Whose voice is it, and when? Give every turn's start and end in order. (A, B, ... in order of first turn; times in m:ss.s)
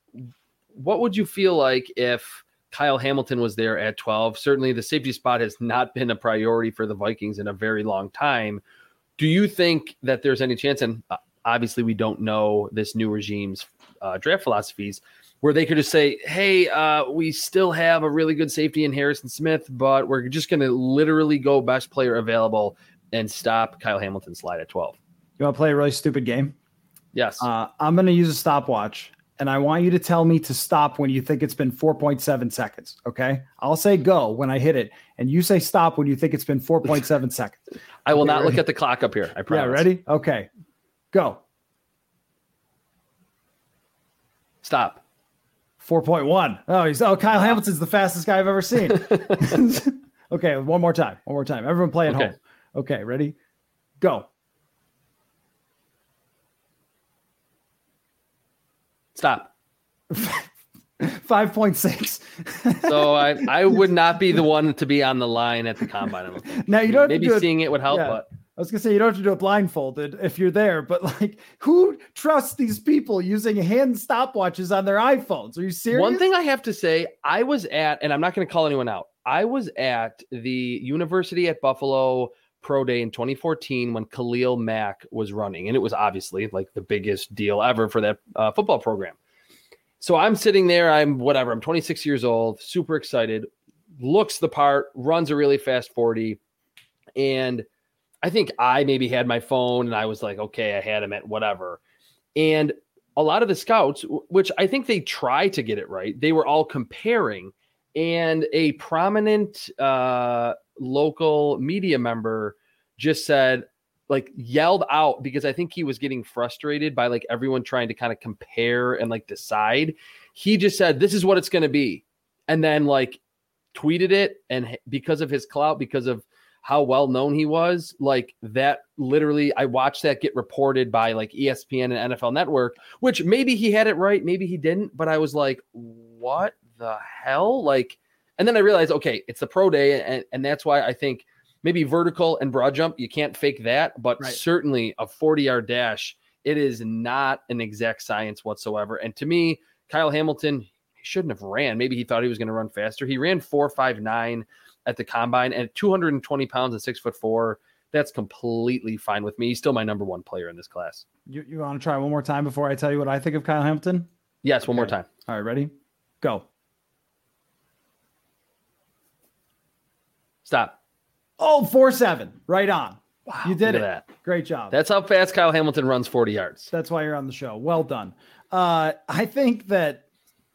0:00.7-0:08.6 A
0:09.2-0:25.0 A
0:25.4-0:26.5 B
0:27.1-0:27.5 A
0:27.4-0:37.6 B
0:38.0-0:39.9 A
0:38.2-0:38.6 B
0:39.5-0:40.5 B
0:41.1-0:41.4 B
0:44.6-0:45.0 A
0:45.8-0:53.3 B
0:49.1-0:49.4 A
0:52.1-0:52.3 A
0:54.0-0:54.3 B
0:59.1-0:59.5 A
1:00.1-1:04.4 B
1:02.8-1:08.2 A
1:06.5-1:16.3 B
1:15.9-1:29.2 A
1:30.0-1:33.5 A
1:34.0-1:36.4 A
1:37.2-1:37.6 A
1:38.2-1:41.8 A
1:42.4-2:03.2 A
2:03.7-2:41.0 A
2:41.3-2:44.1 B
2:44.4-2:45.1 A
2:44.7-2:46.4 B
2:50.4-2:50.8 A
2:51.4-2:54.7 B
2:53.3-2:54.0 A
2:54.7-2:56.7 A
2:56.7-3:00.0 B